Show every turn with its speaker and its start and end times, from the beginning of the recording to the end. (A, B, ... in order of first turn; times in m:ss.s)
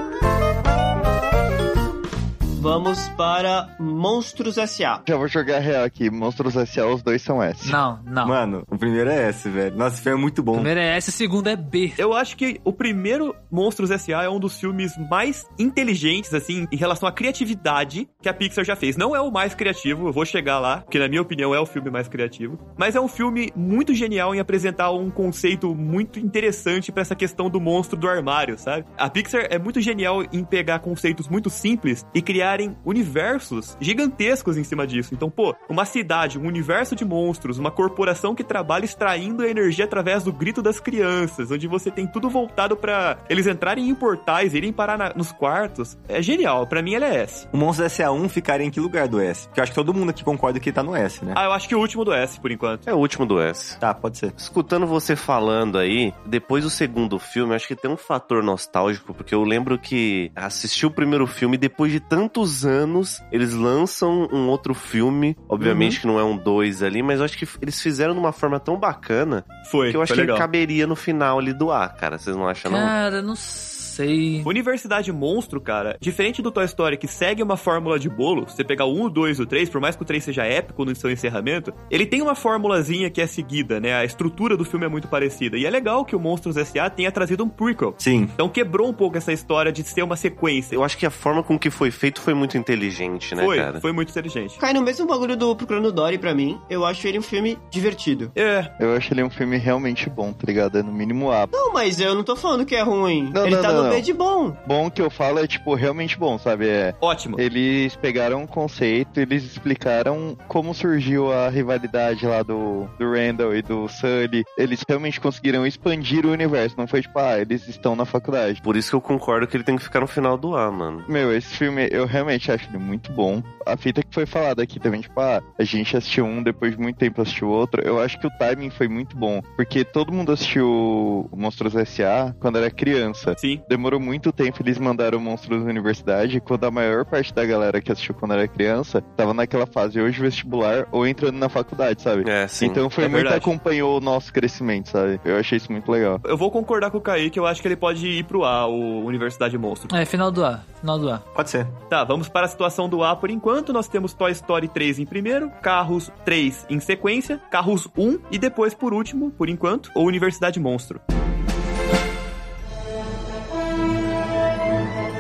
0:02.6-0:05.0 A
0:05.1-0:07.8 B
0:07.6-0:08.4 C
0:08.2-0:10.7 D
0:10.5-0:12.0 C
0:12.0-0:47.5 E
0:47.5-0:51.4 D
0:51.3-0:52.9 E
0:52.9-0:53.8 F
0:53.8-0:54.4 D
0:54.4-1:12.9 F
1:05.6-1:06.0 E
1:09.6-1:10.5 E
1:12.6-1:14.5 C
1:14.4-1:30.8 E
1:28.0-1:28.3 D
1:30.7-1:33.8 F
1:33.4-1:34.6 E
1:34.6-1:38.3 A
1:38.4-1:38.7 E
1:38.8-1:41.5 B
1:41.5-1:44.6 A
1:43.3-1:44.0 B
1:44.6-1:58.6 B
1:47.0-1:47.4 E
1:58.6-2:01.1 F
2:01.1-2:26.2 B
2:22.2-2:22.8 F
2:23.0-2:23.5 E
2:26.2-2:29.9 E
2:29.9-2:31.2 C
2:31.4-2:31.8 D
2:31.9-2:41.0 E